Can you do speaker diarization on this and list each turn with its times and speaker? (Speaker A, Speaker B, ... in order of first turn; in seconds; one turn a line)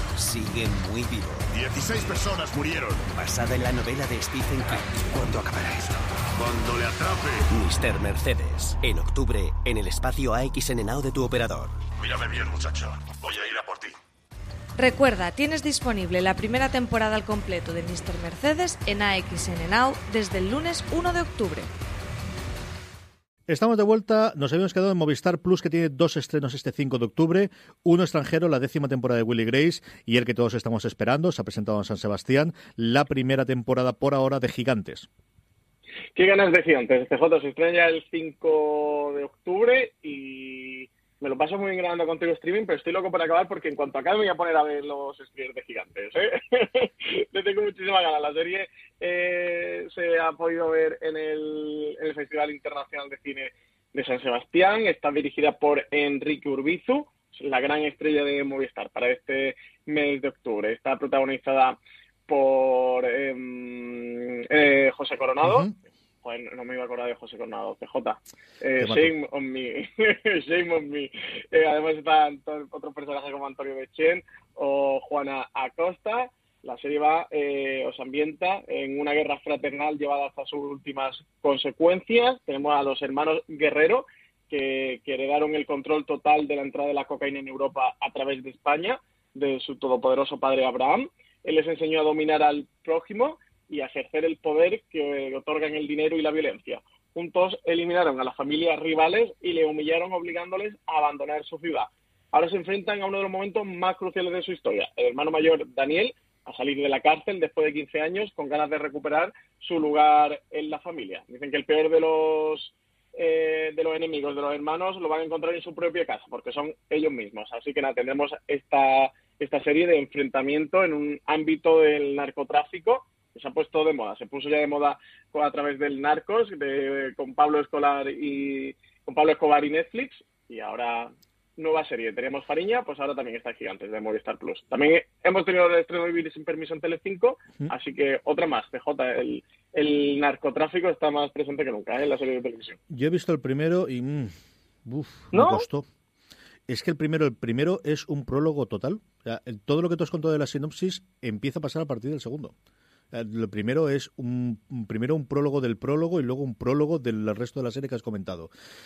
Speaker A: 0.1-1.6
Speaker B: 1.5-3.1
Speaker A: 3.1-5.0
Speaker B: 5.1-7.4
Speaker A: 7.5-11.8
Speaker B: 12.0-13.9
Speaker C: 14.8-21.7
Speaker D: 23.5-35.1
Speaker E: 36.1-65.7
Speaker D: 65.4-65.8
Speaker E: 66.2-142.8
Speaker D: 68.8-69.1
Speaker D: 142.9-144.3
Speaker D: 144.8-145.9
Speaker E: 145.3-145.7
Speaker D: 146.7-152.6
Speaker D: 153.1-158.5